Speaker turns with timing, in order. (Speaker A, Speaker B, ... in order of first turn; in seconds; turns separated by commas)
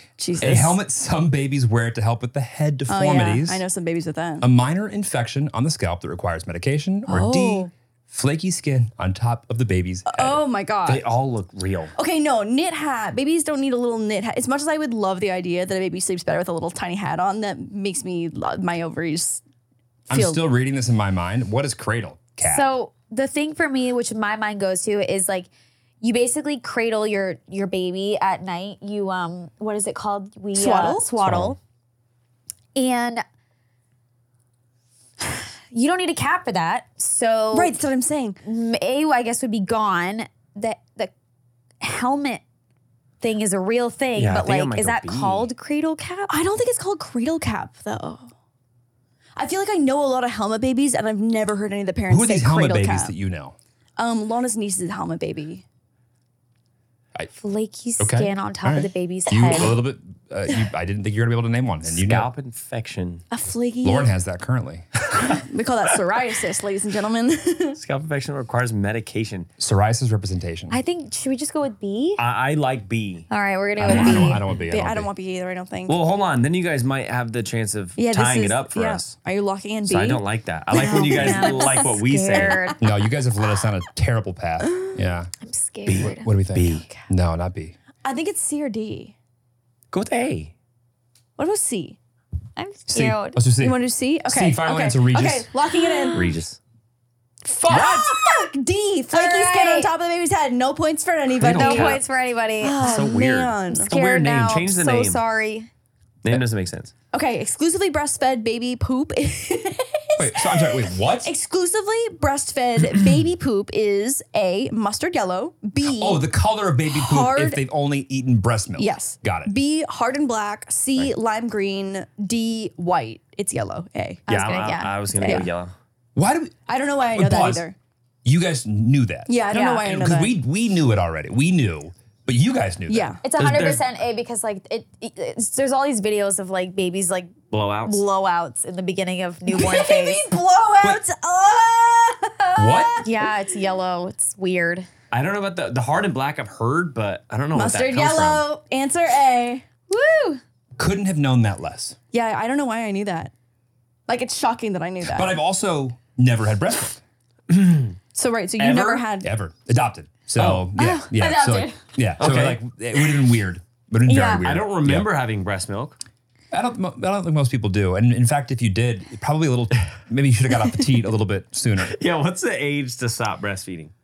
Speaker A: 0.2-0.8, Speaker B: 0.4-3.6, Speaker A: 2.9-4.5, Speaker B: 4.4-10.4, Speaker A: 7.1-7.7, Speaker A: 10.1-11.1, Speaker C: 10.9-11.9, Speaker A: 12.0-19.4, Speaker A: 20.1-20.4, Speaker B: 20.1-22.7, Speaker D: 22.4-25.5, Speaker D: 26.0-31.6, Speaker A: 30.6-31.1, Speaker B: 31.2-31.5, Speaker D: 32.8-33.2, Speaker D: 35.2-37.8, Speaker A: 37.5-38.4, Speaker D: 38.5-41.1, Speaker D: 41.8-42.4, Speaker D: 43.2-46.3, Speaker C: 44.2-45.5, Speaker A: 46.3-48.3, Speaker A: 49.4-53.1, Speaker B: 52.1-53.5, Speaker A: 54.0-55.6, Speaker D: 57.3-59.7, Speaker B: 58.0-62.3, Speaker C: 61.9-63.2, Speaker A: 63.3-64.1, Speaker B: 63.8-64.9, Speaker C: 65.1-65.4, Speaker A: 65.5-67.8, Speaker C: 67.8-69.5, Speaker B: 69.6-70.8, Speaker D: 70.7-72.2, Speaker C: 72.2-73.3, Speaker D: 73.3-74.4, Speaker B: 73.8-75.1, Speaker A: 73.8-76.0, Speaker C: 75.9-79.2, Speaker A: 78.0-81.9, Speaker C: 79.9-82.6, Speaker D: 80.7-82.8, Speaker B: 82.8-85.3, Speaker A: 84.6-85.0, Speaker D: 85.4-86.3, Speaker C: 85.9-86.9, Speaker B: 85.9-87.8, Speaker A: 88.0-89.2, Speaker C: 89.9-90.5, Speaker A: 91.4-92.0, Speaker D: 92.6-93.4, Speaker B: 92.9-95.5, Speaker A: 93.6-96.3, Speaker D: 95.7-96.2, Speaker C: 96.1-96.6, Speaker B: 97.5-98.2, Speaker A: 97.6-102.0, Speaker D: 99.1-99.9, Speaker C: 101.3-102.0, Speaker D: 101.5-102.9, Speaker A: 102.6-103.9, Speaker C: 102.8-105.2, Speaker D: 103.7-105.7, Speaker C: 106.2-106.9, Speaker A: 107.1-116.3, Speaker B: 110.2-111.3, Speaker B: 115.8-119.5, Speaker A: 116.9-117.6, Speaker A: 118.8-124.2, Speaker D: 124.3-125.5, Speaker C: 124.3-125.7, Speaker A: 125.2-125.5, Speaker B: 126.2-127.7, Speaker A: 126.7-127.8, Speaker B: 128.2-133.7, Speaker A: 129.3-130.3, Speaker D: 129.5-129.9, Speaker A: 132.9-133.2, Speaker D: 133.2-140.2, Speaker C: 133.4-133.8, Speaker C: 137.5-138.0, Speaker A: 139.5-143.3, Speaker B: 142.6-143.1, Speaker D: 143.0-144.9, Speaker C: 145.1-148.5, Speaker A: 147.5-149.7, Speaker D: 149.9-150.4, Speaker B: 150.8-152.0, Speaker A: 152.1-153.3, Speaker A: 154.1-155.4, Speaker B: 155.0-157.0, Speaker C: 157.5-158.0, Speaker A: 158.2-159.3, Speaker C: 158.6-159.1, Speaker B: 159.2-165.1, Speaker C: 160.4-160.7, Speaker D: 160.8-161.8, Speaker C: 162.2-162.6, Speaker D: 164.1-164.5, Speaker C: 164.4-166.0, Speaker B: 166.5-172.0, Speaker C: 171.8-173.9